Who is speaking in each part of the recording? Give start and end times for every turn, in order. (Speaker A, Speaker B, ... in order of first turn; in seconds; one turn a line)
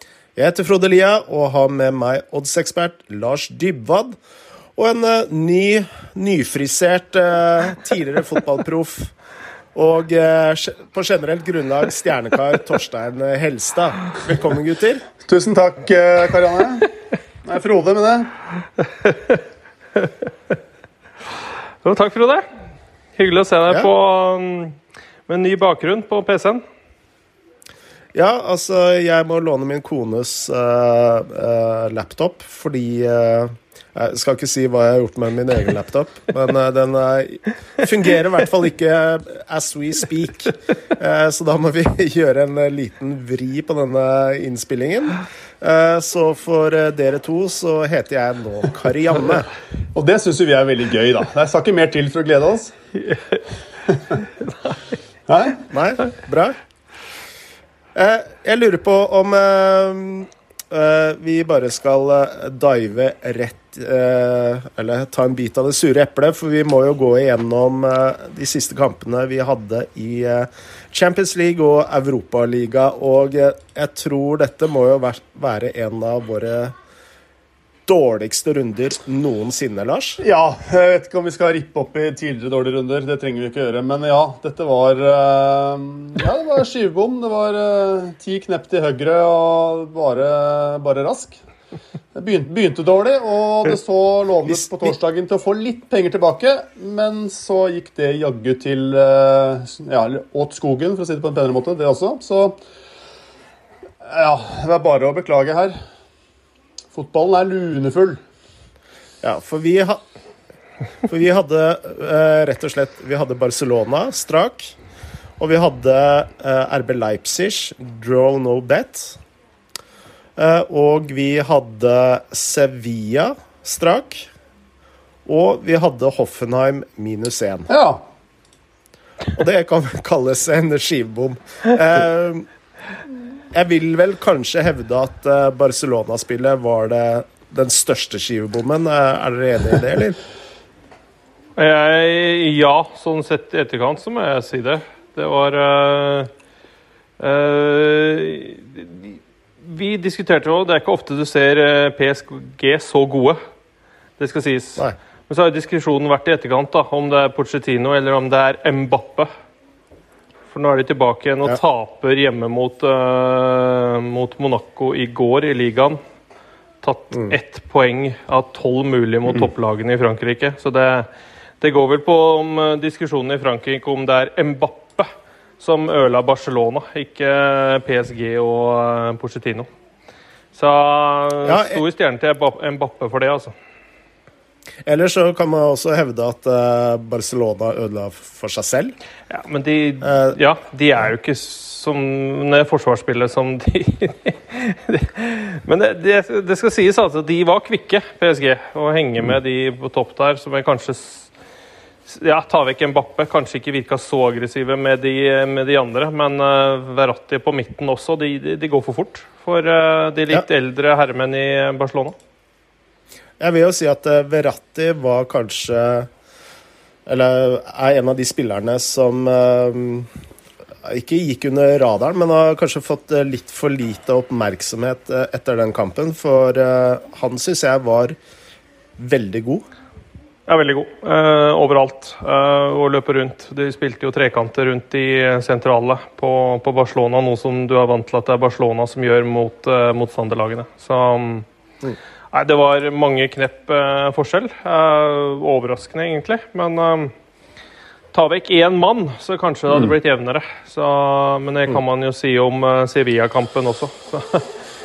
Speaker A: 0.4-4.2
Speaker A: 4.8-9.1
Speaker A: 9.7-15.1
Speaker B: 15.2-16.9
Speaker B: 17.4-18.3
Speaker C: 19.0-19.4
Speaker C: 21.8-22.5
Speaker C: 23.2-24.8
Speaker C: 25.3-26.6
Speaker A: 28.1-49.5
Speaker B: 49.9-52.7
Speaker C: 54.5-54.8
Speaker B: 55.3-55.6
Speaker A: 55.7-56.6
Speaker A: 58.0-76.8
Speaker A: 77.9-80.2
Speaker B: 80.2-91.4
Speaker B: 92.2-102.6
Speaker B: 104.0-105.8
Speaker B: 106.9-108.2
Speaker A: 109.2-110.0
Speaker A: 111.1-114.8
Speaker A: 115.4-119.2
Speaker A: 120.4-124.3
Speaker A: 125.3-127.7
Speaker B: 127.7-128.0
Speaker A: 129.3-132.5
Speaker A: 133.5-140.2
Speaker C: 141.6-146.3
Speaker C: 147.2-153.4
Speaker C: 154.2-159.3
Speaker C: 160.5-166.0
Speaker C: 166.8-171.1
Speaker C: 171.6-175.1
Speaker C: 175.6-179.7
Speaker C: 180.5-183.6
Speaker A: 181.4-181.8
Speaker A: 184.8-188.9
Speaker C: 189.3-201.3
Speaker A: 190.0-190.4
Speaker C: 202.1-212.2
Speaker A: 213.4-216.1
Speaker A: 217.1-220.1
Speaker A: 220.8-228.2
Speaker A: 229.0-229.7
Speaker C: 230.5-241.5
Speaker C: 242.3-247.1
Speaker C: 248.1-254.5